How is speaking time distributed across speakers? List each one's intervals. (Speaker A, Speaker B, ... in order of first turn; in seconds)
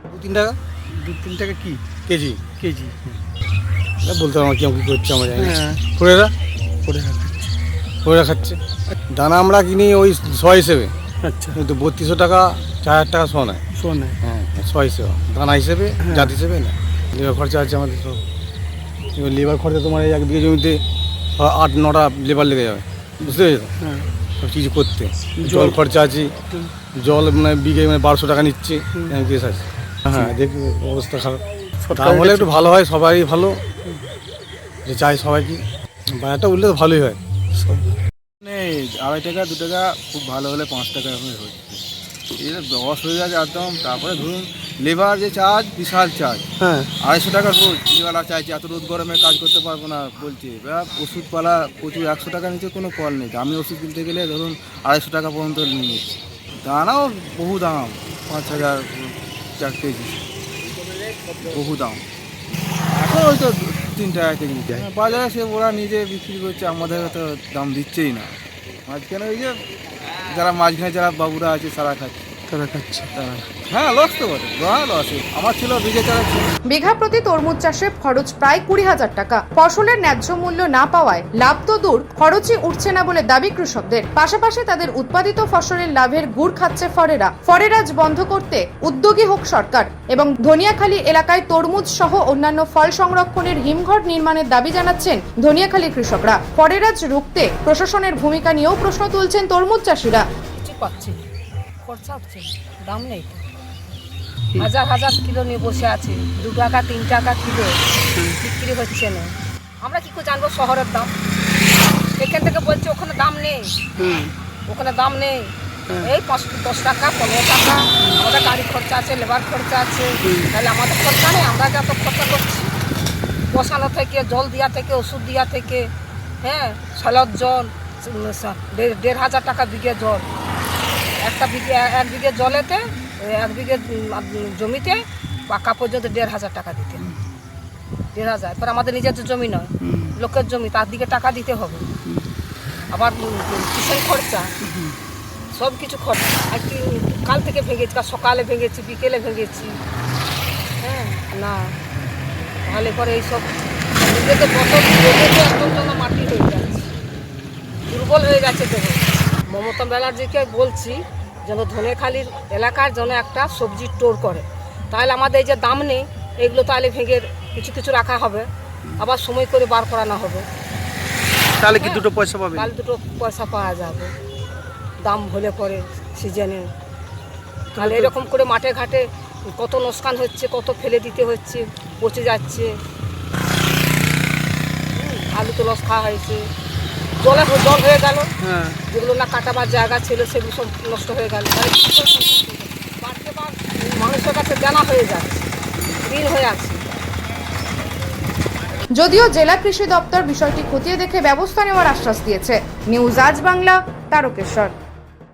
Speaker A: 0.1-0.6, 1.3-2.5, 4.0-6.3, 8.0-8.6, 9.1-10.9, 11.5-13.6, 14.2-18.2, 19.1-20.8, 21.4-23.7, 24.4-26.3, 26.9-33.6, 34.9-35.6, 36.2-37.2
Speaker B: 1.0-1.8, 2.6-2.9, 5.4-5.8, 6.8-7.5, 11.2-11.6, 13.8-14.2, 16.1-16.3, 23.8-24.1, 25.4-25.8, 31.8-32.5, 37.6-37.8, 46.6-46.9, 72.5-73.1, 114.0-114.3, 120.2-120.5, 171.6-172.7, 177.7-178.1, 188.4-188.8
Speaker C: 38.4-41.8, 42.4-46.4, 47.0-56.0, 56.6-60.2, 61.4-62.0, 62.9-69.6, 70.2-72.2, 73.1-76.6
Speaker D: 76.7-100.2, 199.0-204.7
Speaker E: 100.6-101.3, 101.8-103.4, 104.6-107.8, 108.3-111.1, 112.2-113.8, 114.7-122.7, 123.5-125.9, 126.4-130.2, 131.2-137.1, 138.1-141.9, 142.9-144.5, 145.5-149.7, 150.8-151.7, 152.7-153.5, 154.0-156.9, 157.9-170.4, 171.7-174.1, 175.0-176.7, 177.8-182.7, 184.9-186.4, 187.2-188.3, 188.9-196.8